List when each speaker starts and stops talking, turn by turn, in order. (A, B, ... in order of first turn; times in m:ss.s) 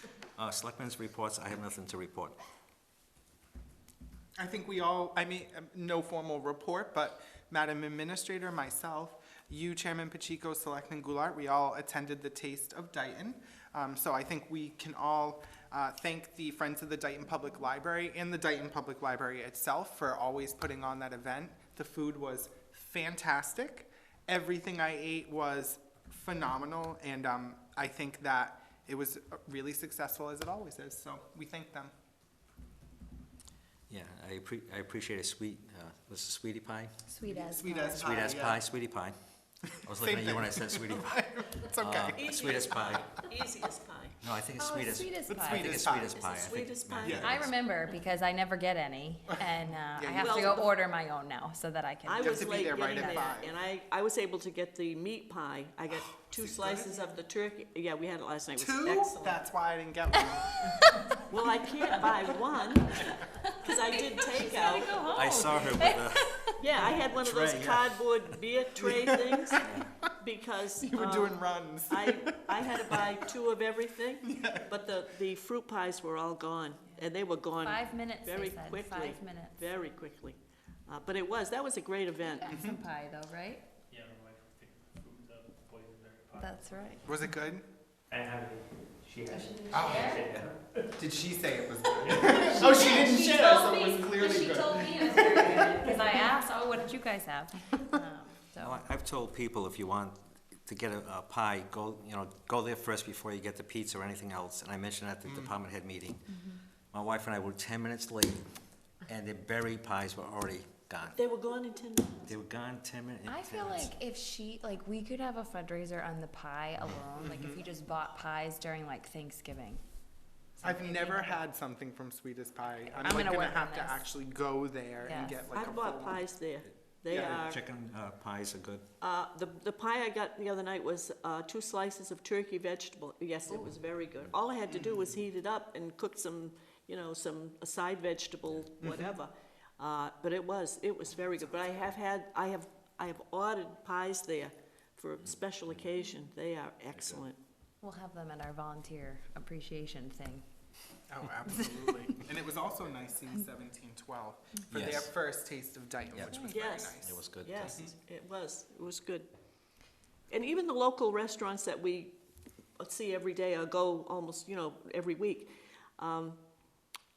0:00.4-0:02.4 A
0:04.4-0:31.9 B
0:33.9-0:37.0 A
0:37.1-0:38.3 C
0:37.3-0:38.6 B
0:38.0-0:39.2 A
0:39.7-0:42.4 B
0:39.9-0:41.2 A
0:41.8-0:43.0 A
0:42.1-0:44.2 D
0:44.2-0:47.5 A
0:44.6-0:45.7 C
0:45.3-0:46.2 B
0:46.2-0:47.4 D
0:47.0-0:47.4 B
0:47.2-0:53.3 C
0:49.3-0:50.6 B
0:50.2-0:50.7 D
0:52.0-0:59.4 D
0:52.2-0:53.5 B
0:56.1-0:56.9 B
0:58.6-1:00.6 B
1:00.6-1:01.1 C
1:01.3-1:05.2 D
1:03.0-1:06.6 C
1:05.1-1:06.4 A
1:06.6-1:22.6 D
1:07.2-1:08.0 A
1:08.8-1:09.6 B
1:09.6-1:09.9 A
1:10.8-1:13.2 B
1:14.2-1:14.8 B
1:17.6-1:19.6 C
1:22.3-1:23.6 C
1:22.4-1:22.8 B
1:23.9-1:27.1 E
1:26.4-1:27.1 C
1:27.0-1:27.7 B
1:28.1-1:30.9 E
1:29.3-1:30.2 C
1:29.7-1:30.4 B
1:31.0-1:35.9 B
1:32.0-1:32.9 E
1:32.4-1:38.8 C
1:38.6-1:48.4 A
1:45.3-1:45.5 B
1:46.3-1:46.6 C
1:49.1-1:51.2 A
1:51.2-1:52.3 D
1:52.3-1:53.9 A
1:53.3-1:59.8 C
1:57.2-1:57.6 B
2:00.6-2:01.4 C
2:00.6-2:06.3 B
2:02.8-2:04.0 C
2:05.0-2:05.4 C
2:05.5-2:07.6 D
2:07.1-2:07.5 B
2:07.2-2:08.8 A
2:09.0-2:27.4 D
2:14.7-2:15.0 B
2:18.8-2:19.1 B
2:26.9-2:27.2 A
2:27.8-2:30.4 C
2:31.1-2:37.9 B
2:34.7-2:35.1 A
2:36.1-2:37.8 A
2:36.2-2:36.6 C
2:36.4-2:39.3 D
2:40.3-2:42.2 D
2:42.8-2:46.4 D